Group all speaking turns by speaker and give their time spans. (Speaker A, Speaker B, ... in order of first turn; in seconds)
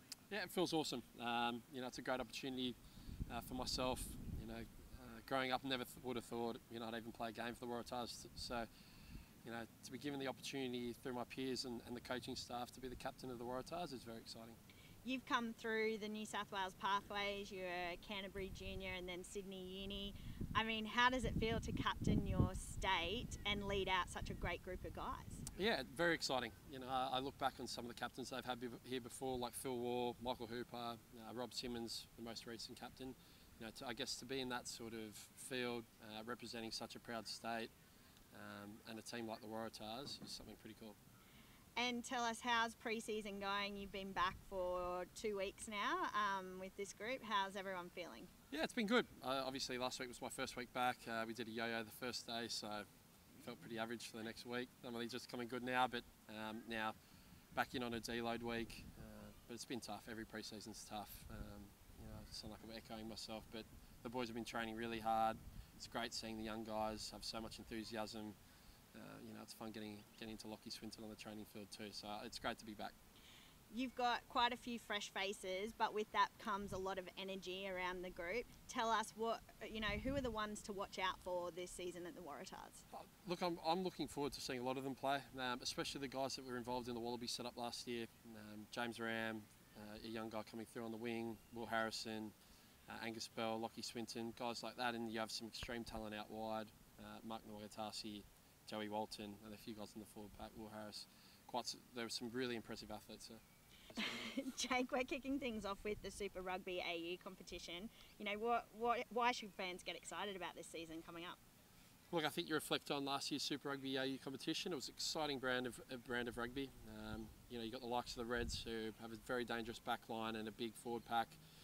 Speaker A: 0.3-2.8, 3.3-8.7, 9.4-14.6, 25.6-37.7, 38.3-41.0, 48.5-52.9, 53.4-57.0, 57.5-68.4, 68.9-72.9, 82.9-92.3, 92.9-104.3, 112.1-121.4
Speaker B: 15.1-25.4, 41.8-48.3, 73.7-82.8, 104.0-111.4